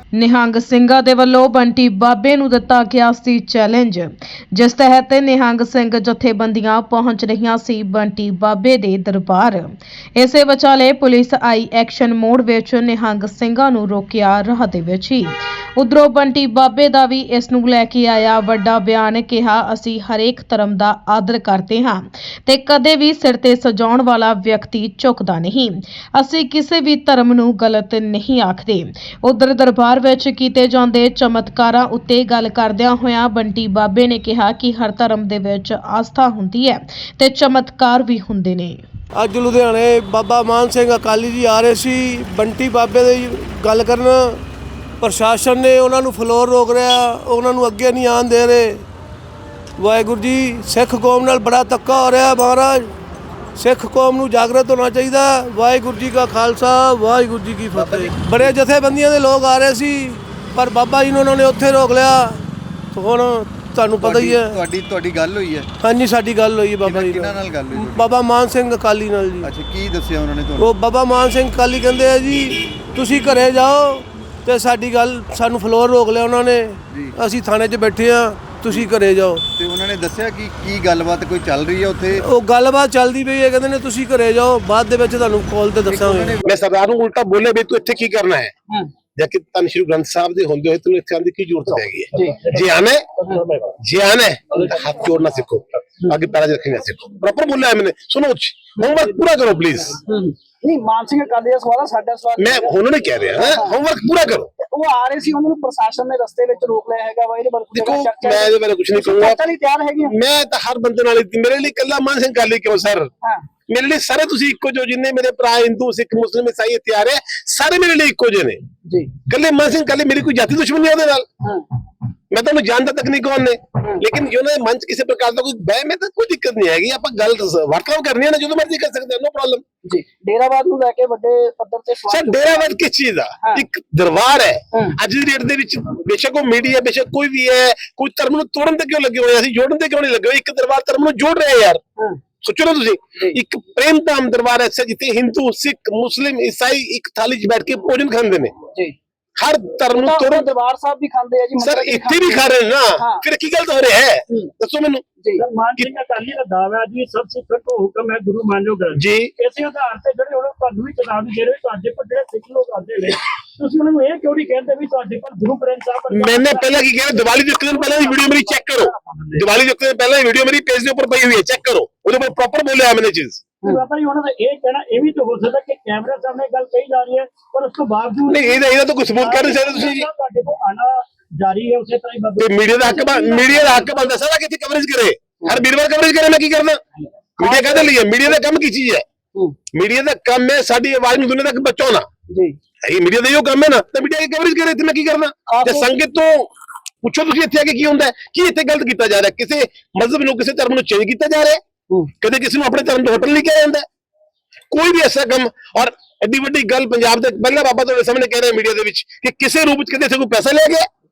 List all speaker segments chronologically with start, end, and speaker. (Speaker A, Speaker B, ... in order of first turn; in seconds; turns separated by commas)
Speaker A: 0.1-38.8, Speaker B: 39.1-44.4, Speaker B: 45.0-48.8, Speaker B: 49.8-52.9, Speaker B: 53.5-62.4, Speaker C: 57.7-58.5, Speaker B: 62.9-64.6, Speaker C: 64.0-65.7, Speaker B: 65.8-69.5, Speaker C: 66.8-68.1, Speaker C: 69.4-70.7, Speaker B: 70.6-79.4, Speaker C: 79.6-82.2, Speaker B: 82.1-86.4, Speaker C: 85.9-86.4, Speaker D: 86.4-88.5, Speaker D: 89.1-93.1, Speaker E: 92.1-92.5, Speaker F: 93.3-93.7, Speaker D: 93.8-100.0, Speaker E: 98.8-99.1, Speaker E: 100.0-102.8, Speaker D: 102.4-104.5, Speaker E: 103.3-103.8, Speaker E: 104.6-110.1, Speaker D: 107.7-109.4, Speaker D: 110.0-113.1, Speaker E: 113.2-113.5, Speaker D: 113.7-118.6, Speaker E: 118.8-119.2, Speaker D: 119.2-121.2, Speaker D: 122.3-129.6, Speaker E: 129.8-132.7, Speaker D: 132.1-141.8, Speaker D: 142.4-148.5, Speaker D: 149.4-150.5, Speaker E: 149.9-153.2, Speaker D: 151.6-155.0, Speaker F: 155.4-166.7, Speaker D: 158.9-159.3, Speaker D: 166.1-173.4, Speaker F: 167.7-169.4, Speaker F: 173.6-178.5, Speaker D: 178.3-180.1, Speaker F: 179.2-183.9, Speaker D: 182.4-186.8, Speaker E: 182.9-183.4, Speaker E: 187.4-188.4, Speaker D: 187.4-189.0, Speaker D: 189.7-192.1, Speaker E: 192.3-192.6, Speaker D: 192.8-196.5, Speaker E: 195.5-195.9, Speaker D: 197.0-201.6, Speaker D: 202.2-203.8, Speaker D: 204.7-210.9